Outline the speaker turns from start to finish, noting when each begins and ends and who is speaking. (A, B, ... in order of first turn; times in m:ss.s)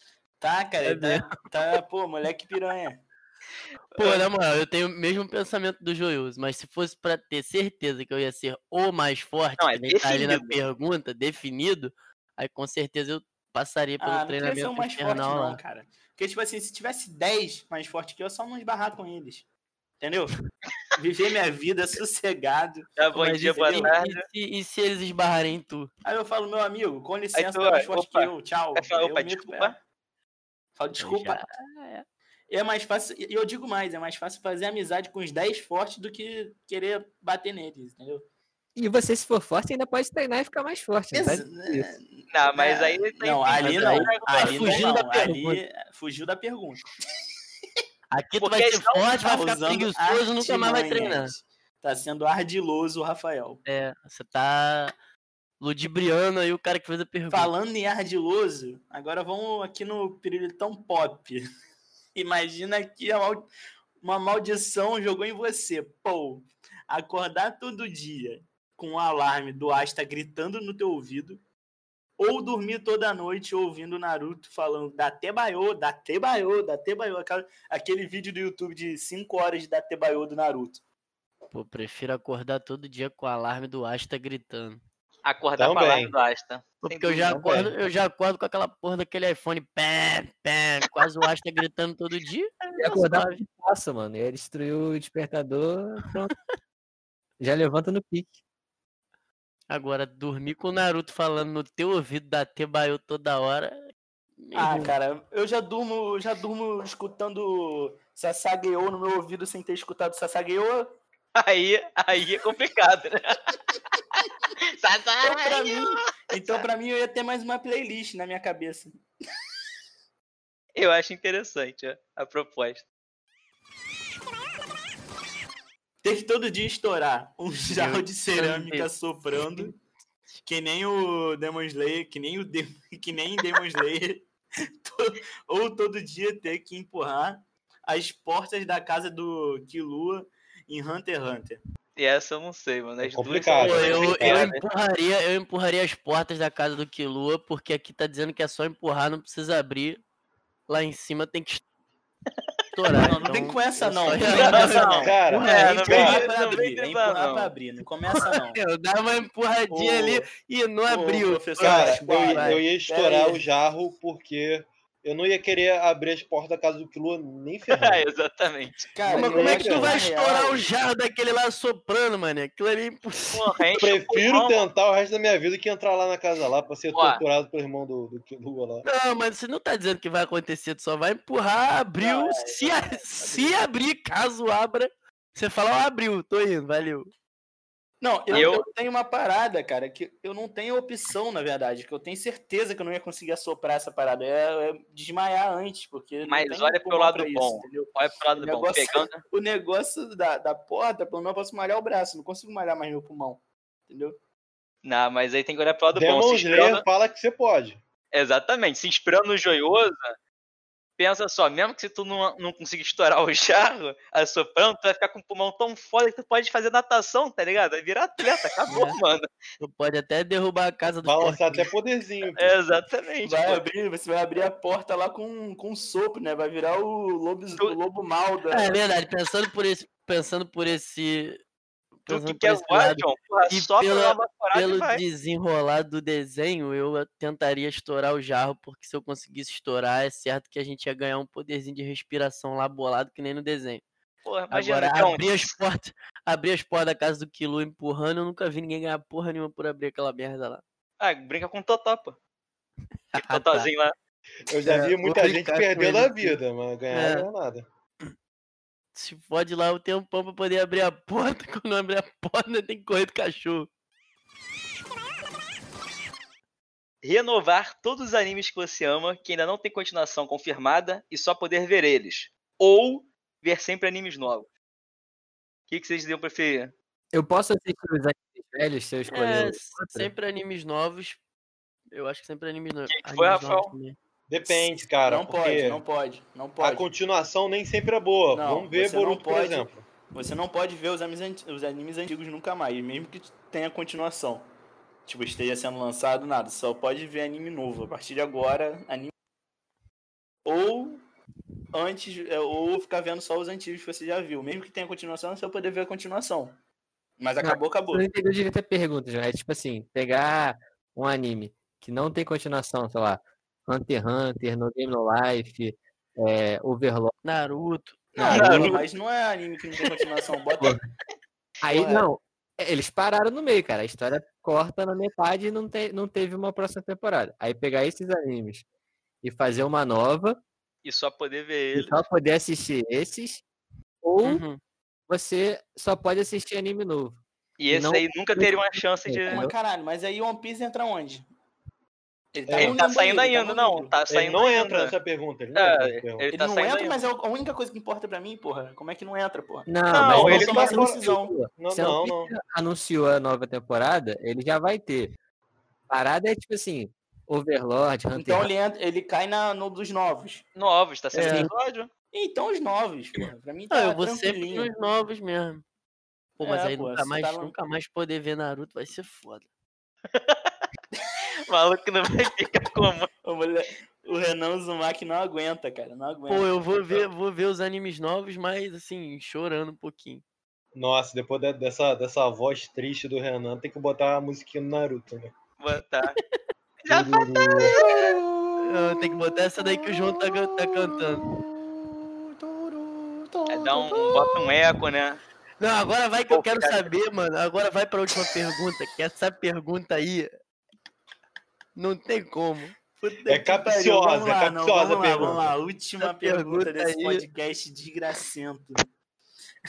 0:00.4-0:03.0 A
0:00.8-0:01.4 B
0:04.0-0:15.6 B
0:04.0-0:04.2 C
0:09.6-0:10.6 C
0:14.0-0:19.5 A
0:20.0-0:20.4 A
0:21.0-0:24.0 A
0:23.0-0:24.3 C
0:23.1-0:25.9 B
0:26.0-0:29.8 A
0:27.4-0:29.8 C
0:30.8-0:31.5 A
0:31.0-0:32.0 B
0:32.5-0:38.2 A
0:38.8-0:41.9 D
0:41.1-0:46.9 A
0:42.3-0:44.9 C
0:43.6-0:45.6 B
0:48.1-0:51.3 B
0:48.4-0:49.1 C
0:49.2-0:53.6 A
0:53.7-0:54.9 B
0:55.6-0:57.5 B
0:57.3-1:01.4 A
1:02.1-1:03.5 A
1:04.0-1:11.4 A
1:12.2-1:20.8 A
1:21.5-1:24.8 B
1:25.3-1:27.3 C
1:25.6-1:26.1 E
1:26.8-1:33.4 B
1:27.3-1:27.7 E
1:32.8-1:36.3 D
1:37.4-1:38.4 D
1:39.7-1:43.9 B
1:44.4-1:44.9 B
1:44.6-1:51.0 A
1:51.4-1:53.6 C
1:54.8-1:55.8 C
1:55.2-1:59.0 A
2:00.8-2:02.9 C
2:06.0-2:09.8 A
2:07.7-2:08.9 B
2:10.4-2:14.3 A
2:14.8-2:21.6 A
2:22.0-2:24.6 C
2:23.0-2:24.5 E
2:23.6-2:30.0 B
2:30.7-2:31.6 B
2:32.7-2:35.7 B
2:33.0-2:38.6 A
2:34.2-2:37.5 C
2:35.0-2:36.2 E
2:38.2-2:42.6 B
2:39.7-2:40.3 A
2:40.9-2:43.4 A
2:41.6-2:48.1 E
2:47.7-2:48.9 C
2:49.0-2:50.6 A
2:49.1-2:50.0 E
2:49.1-2:53.6 B
2:53.3-2:54.7 C
2:53.8-2:58.9 E
2:56.9-2:57.2 C
2:58.8-3:07.1 B
3:02.0-3:03.6 A
3:08.0-3:24.2 A
3:08.3-3:08.6 B
3:08.3-3:08.6 C
3:16.2-3:19.2 C
3:24.8-3:26.8 C
3:25.9-3:27.8 E
3:28.1-3:30.2 C
3:31.0-3:39.3 C
3:38.7-3:39.0 B
3:39.6-3:41.7 B
3:41.0-3:42.6 E
3:42.4-3:43.6 C
3:43.2-3:48.8 A
3:48.5-3:51.4 B
3:52.0-4:03.8 B
3:52.1-3:55.0 C
4:04.2-4:05.5 C
4:04.5-4:10.6 B
4:11.0-4:12.2 C
4:13.1-4:13.7 B
4:13.2-4:13.9 C
4:14.5-4:17.6 E
4:14.6-4:16.4 B
4:16.9-4:17.3 B
4:18.9-4:23.7 B
4:27.0-4:34.5 C
4:35.7-4:36.7 C
4:37.1-4:40.1 D
4:39.1-4:41.2 B
4:41.9-4:44.0 B
4:42.9-4:43.7 C
4:44.3-4:45.8 E
4:44.5-4:46.9 A
4:46.6-4:49.9 E
4:48.3-4:54.5 A
4:55.1-4:59.1 A
5:00.4-5:01.0 A
5:01.7-5:06.6 A
5:07.2-5:08.0 A
5:07.4-5:17.1 D
5:17.2-5:18.8 B
5:18.1-5:20.8 A
5:18.2-5:18.7 D
5:18.2-5:18.8 C
5:21.6-5:28.6 D
5:21.7-5:22.1 A
5:29.2-5:30.4 D
5:30.8-5:32.0 C
5:31.7-5:33.4 D
5:34.0-5:34.4 D
5:34.2-5:34.6 B
5:35.1-5:39.5 D
5:37.6-5:39.4 C
5:39.3-5:41.3 A
5:42.3-5:43.9 A
5:42.5-5:42.8 E
5:42.6-5:45.0 C
5:44.1-5:46.3 E
5:45.6-5:47.0 C
5:46.3-5:51.4 A
5:49.7-5:55.2 D
5:49.9-5:50.5 C
5:50.1-5:52.3 E
5:55.9-5:58.5 D
5:58.1-6:00.4 A
6:00.6-6:01.9 C
6:01.1-6:01.5 B
6:01.1-6:01.5 D
6:02.1-6:04.7 A
6:03.7-6:05.6 B
6:06.4-6:09.5 B
6:06.4-6:07.6 A
6:10.1-6:10.6 C
6:11.5-6:13.1 C
6:13.2-6:17.0 A
6:16.3-6:20.2 B
6:20.7-6:25.3 E
6:25.6-6:26.2 C
6:26.8-6:28.1 C
6:26.9-6:27.8 E
6:27.7-6:34.5 B
6:33.5-6:35.2 C
6:35.6-6:40.3 B
6:36.3-6:36.9 C
6:41.8-6:42.7 B
6:43.0-6:48.8 A
6:43.3-6:45.5 E
6:46.0-6:47.2 B